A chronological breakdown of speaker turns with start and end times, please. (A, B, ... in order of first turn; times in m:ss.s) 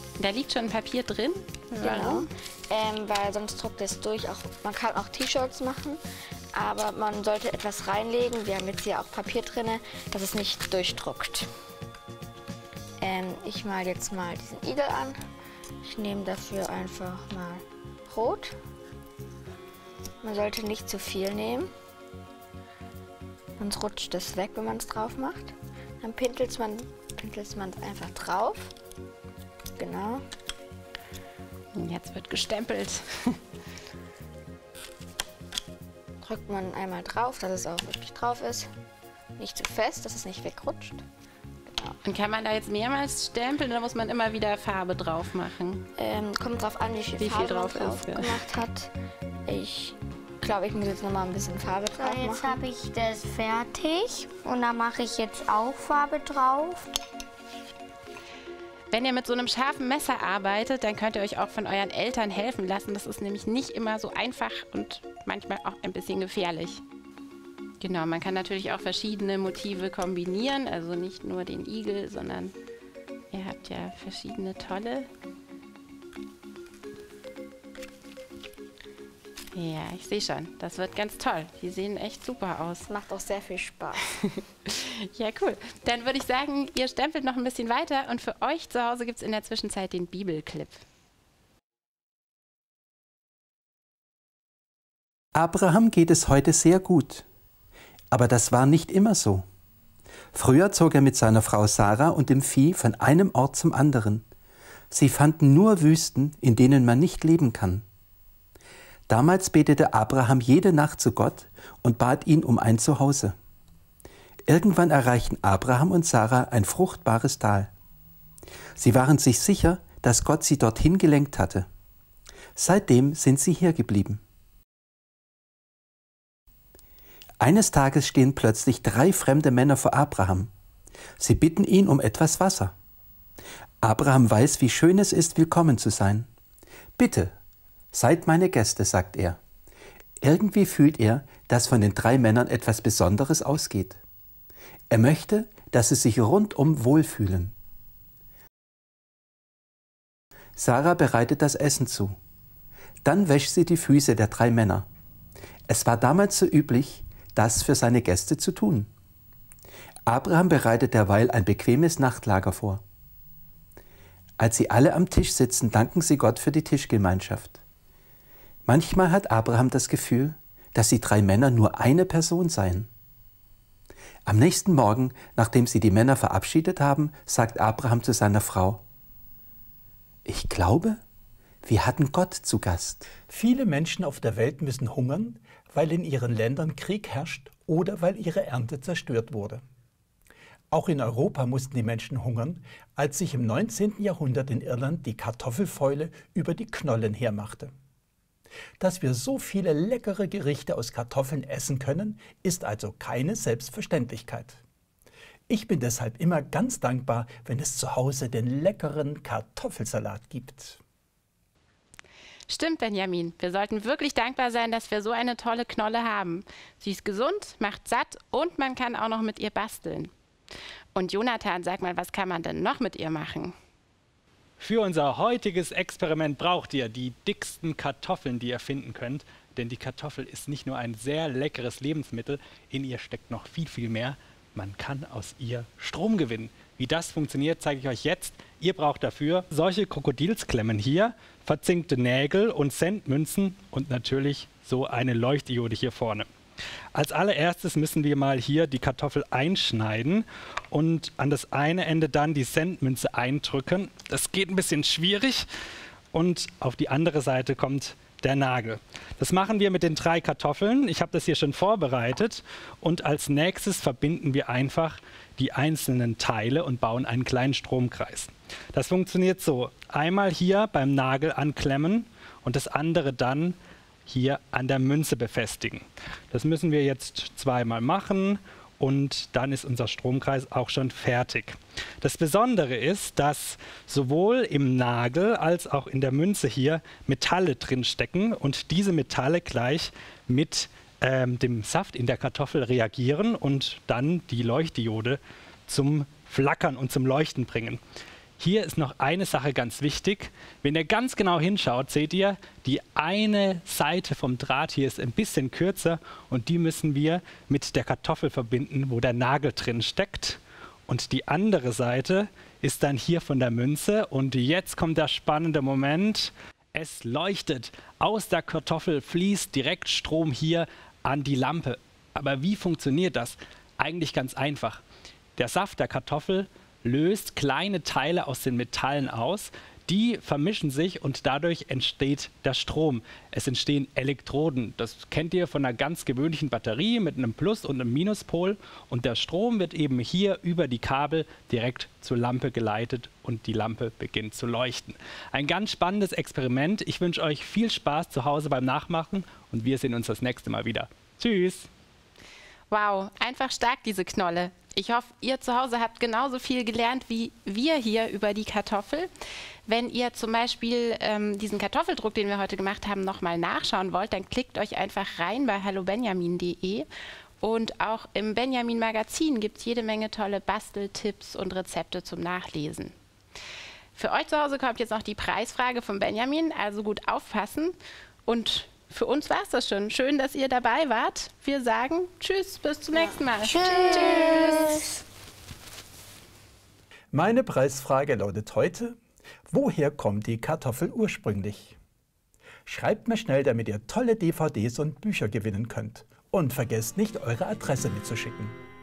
0:00.2-0:02.3 A
0:01.8-0:06.0 B
0:06.5-0:11.5 B
0:13.0-0:15.2 B
0:15.8-0:18.5 B
0:20.2-0:21.7 B
0:23.6-0:28.7 B
0:29.8-0:30.2 B
0:31.7-0:33.3 A
0:36.2-0:38.7 B
0:39.4-0:41.0 B
0:41.7-0:41.9 B
0:42.0-0:45.8 A
0:46.0-0:48.9 B
0:47.2-0:48.4 A
0:49.5-0:52.6 B
0:51.9-0:56.8 C
0:58.9-1:06.8 A
1:07.8-1:12.5 A
1:13.3-1:15.1 A
1:19.5-1:22.9 A
1:22.9-1:24.0 B
1:24.7-1:30.8 A
1:35.3-1:37.2 D
1:38.1-1:39.4 D
1:40.3-1:44.2 D
1:44.9-1:47.8 D
1:49.1-1:53.4 D
1:54.5-1:57.7 D
1:58.8-2:01.7 D
2:02.6-2:04.2 D
2:07.4-2:10.5 D
2:11.2-2:12.7 D
2:13.8-2:16.3 D
2:17.0-2:17.3 D
2:17.9-2:19.4 D
2:20.2-2:24.0 D
2:24.9-2:27.5 D
2:30.6-2:32.2 D
2:33.0-2:34.9 D
2:35.7-2:38.9 D
2:40.1-2:42.8 D
2:44.4-2:47.6 D
2:48.6-2:52.9 D
2:54.2-2:58.8 D
3:00.2-3:01.0 D
3:01.6-3:03.1 D
3:03.3-3:09.6 E
3:10.7-3:17.7 E
3:18.8-3:24.6 E
3:25.5-3:30.8 E
3:32.5-3:40.1 A
3:40.9-3:43.5 A
3:44.6-4:06.3 F
4:06.9-4:15.4 F
4:16.1-4:33.6 F
4:34.1-4:57.8 F
4:58.4-5:24.8 F
5:25.4-5:51.7 F
5:52.7-5:59.1 A
5:59.7-6:06.9 A
6:07.4-6:12.9 A
6:13.9-6:17.7 A
6:18.3-6:24.8 A
6:23.0-6:24.3 B
6:23.4-6:24.8 C
6:27.1-6:29.0 E
6:29.5-6:31.8 E
6:32.6-6:38.6 E